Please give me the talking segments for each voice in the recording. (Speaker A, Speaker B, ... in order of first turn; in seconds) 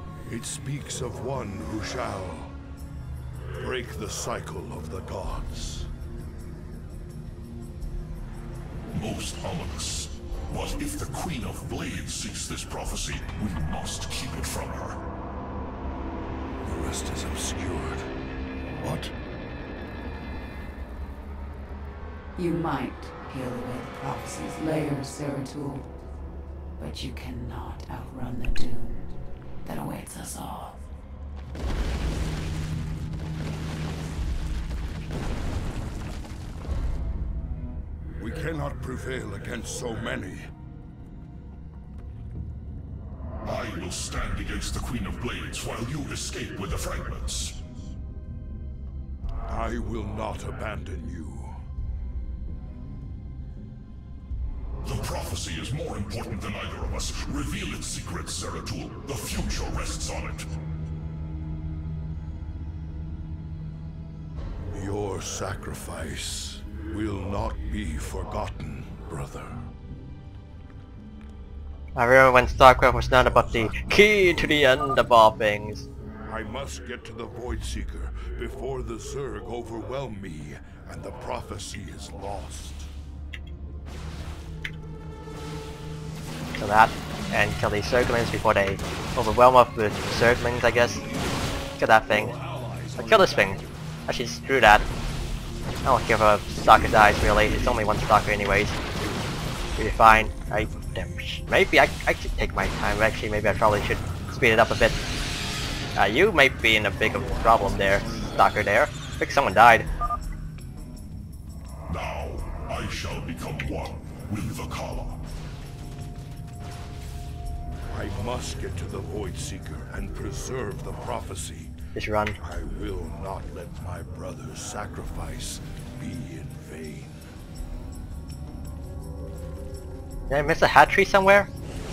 Speaker A: 0.3-2.6, 3.6-5.9, 16.6-18.1, 18.8-19.1, 38.2-40.5, 49.5-51.6, 64.7-69.7, 73.1-74.8, 76.3-82.9, 90.5-93.7, 97.0-101.4, 107.0-108.8, 117.9-121.7, 122.4-127.3
Speaker B: 8.9-15.0, 43.5-47.6, 54.8-60.5, 111.9-115.2
Speaker C: 22.4-25.9, 26.8-30.9
Speaker D: 72.0-75.9, 86.6-91.0, 91.8-92.3, 93.0-94.9, 95.8-98.7, 99.8-105.0, 106.0-109.9, 122.0-122.4, 130.3-131.5